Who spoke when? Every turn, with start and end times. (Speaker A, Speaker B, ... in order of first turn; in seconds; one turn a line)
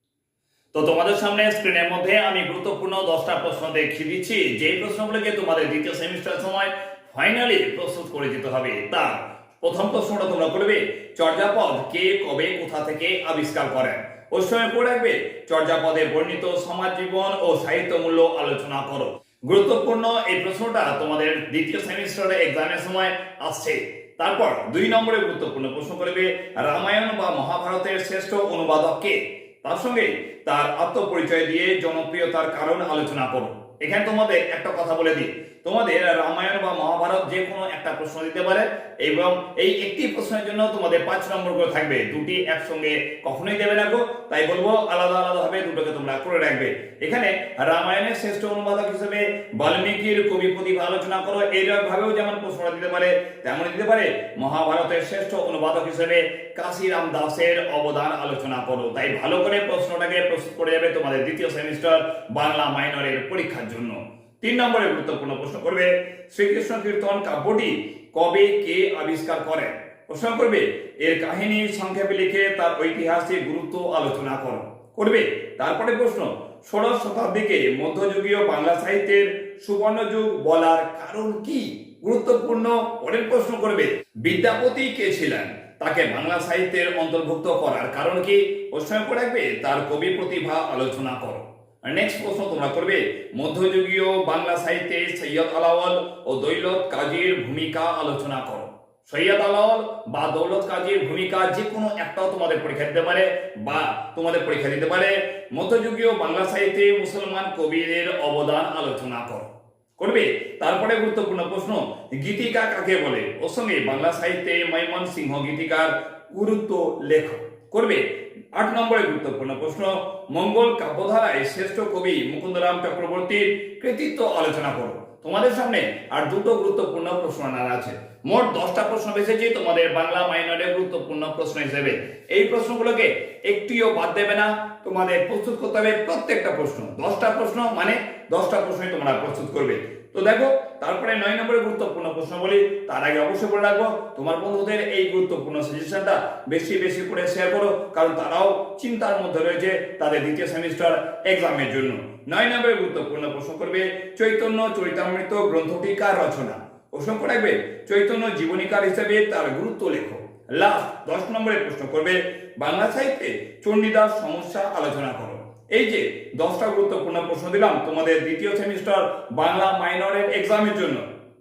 Speaker A: 0.7-118.0
Speaker A: 118.5-171.0